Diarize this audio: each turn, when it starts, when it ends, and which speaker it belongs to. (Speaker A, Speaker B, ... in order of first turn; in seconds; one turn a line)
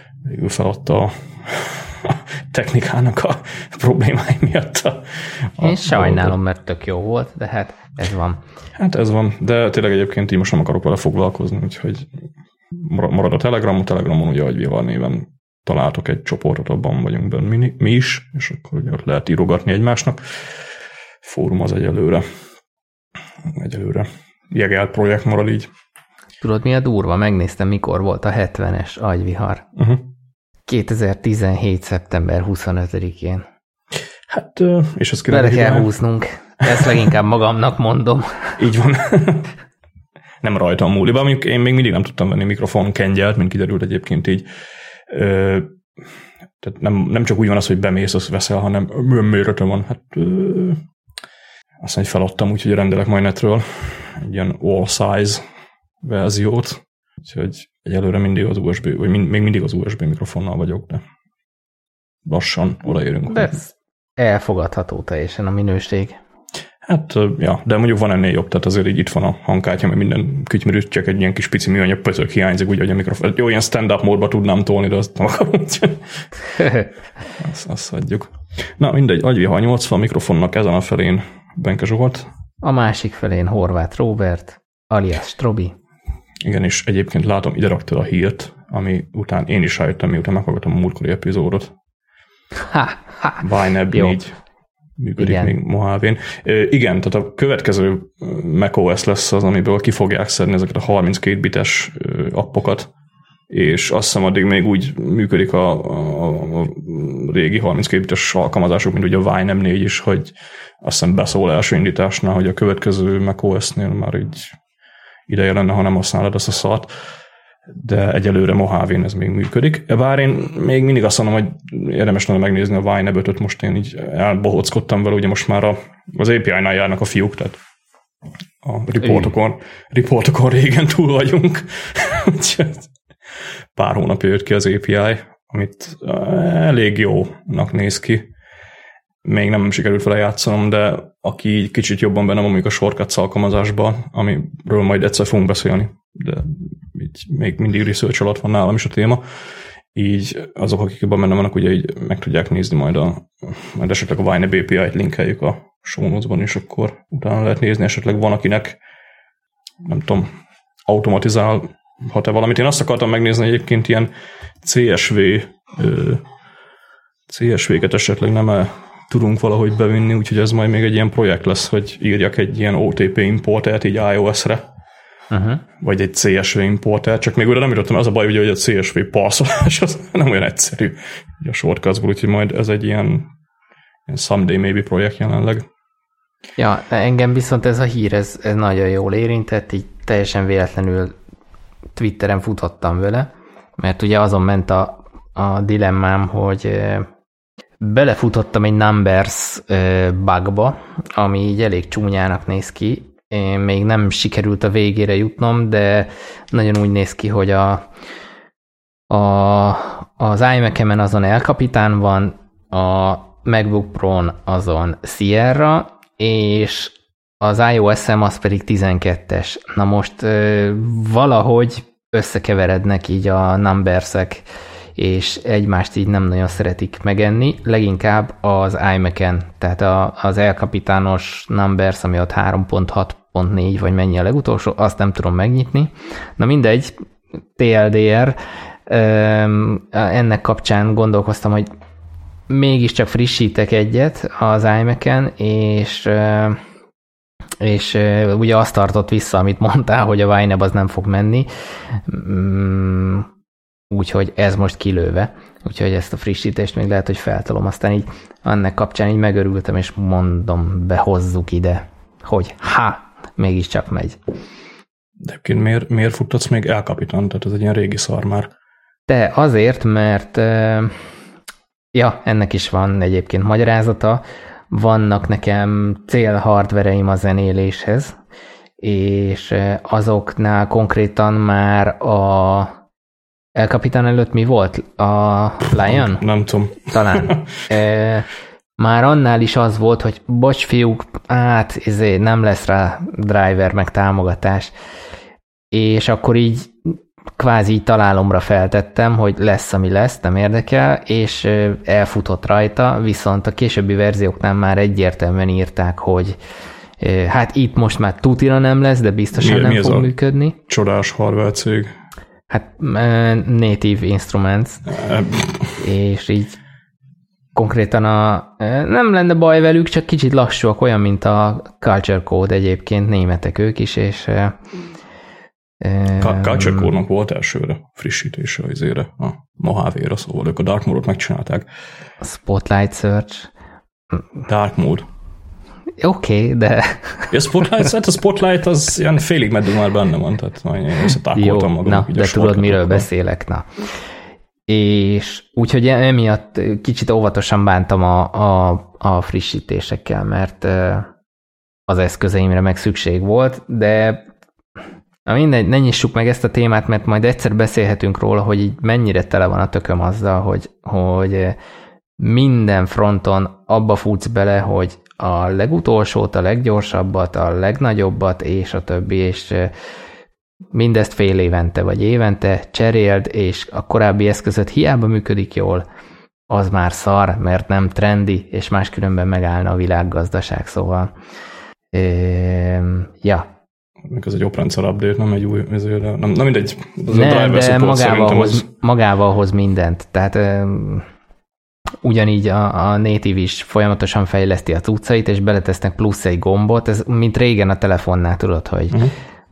Speaker A: 0.2-6.3
Speaker B: 5.6-8.4
Speaker A: 8.8-12.1
Speaker A: 12.7-20.2
Speaker A: 21.2-22.2
Speaker A: 23.4-25.7
Speaker B: 26.4-29.6
Speaker A: 29.8-30.1
Speaker B: 30.7-33.5
Speaker A: 34.3-35.9
Speaker B: 35.3-38.6
Speaker A: 36.7-37.0
Speaker A: 38.6-39.5
Speaker A: 40.4-44.5
Speaker A: 45.1-45.7
Speaker A: 46.6-50.8
Speaker A: 51.8-55.4
Speaker A: 56.0-61.0
Speaker A: 62.2-63.6
Speaker B: 63.3-66.2
Speaker A: 66.8-76.2
Speaker A: 77.4-82.3
Speaker B: 82.6-85.8
Speaker A: 86.4-91.7
Speaker B: 92.7-93.4
Speaker A: 93.4-94.3
Speaker A: 95.0-102.9
Speaker B: 95.2-95.5
Speaker A: 103.5-114.5
Speaker A: 115.3-116.9
Speaker A: 117.7-127.6
Speaker A: 128.6-132.9
Speaker A: 133.8-138.3
Speaker A: 139.2-149.2
Speaker A: 149.9-158.8
Speaker A: 159.8-160.3
Speaker A: 160.9-164.1
Speaker A: 164.6-166.2
Speaker A: 167.3-174.6
Speaker B: 175.3-175.6
Speaker A: 175.8-183.3
Speaker A: 184.1-185.7
Speaker B: 186.6-191.2
Speaker B: 192.0-197.1
Speaker B: 197.8-207.9
Speaker B: 209.1-224.4
Speaker B: 225.0-236.9
Speaker B: 237.6-241.7
Speaker B: 242.5-246.6
Speaker B: 247.6-253.3
Speaker B: 253.9-264.2
Speaker A: 265.2-268.5
Speaker B: 269.1-271.0
Speaker B: 271.9-278.1
Speaker B: 278.8-282.7
Speaker B: 283.6-286.2
Speaker A: 285.7-287.5
Speaker B: 286.9-294.7
Speaker B: 295.7-306.4
Speaker B: 307.0-310.6
Speaker A: 309.3-310.1
Speaker A: 310.7-311.9
Speaker B: 312.5-314.9
Speaker A: 314.9-315.8
Speaker B: 315.8-316.6
Speaker B: 317.6-324.6
Speaker B: 325.8-326.9
Speaker A: 326.2-331.7
Speaker B: 332.2-333.5
Speaker A: 334.5-335.1
Speaker B: 336.0-337.7
Speaker A: 337.3-343.1
Speaker B: 341.3-343.8
Speaker B: 344.7-351.1
Speaker B: 351.9-354.2
Speaker B: 355.3-361.6
Speaker B: 362.2-369.7
Speaker B: 370.7-375.9
Speaker B: 376.5-381.1
Speaker B: 381.9-383.5
Speaker A: 384.1-388.7
Speaker B: 387.1-391.1
Speaker B: 392.0-399.0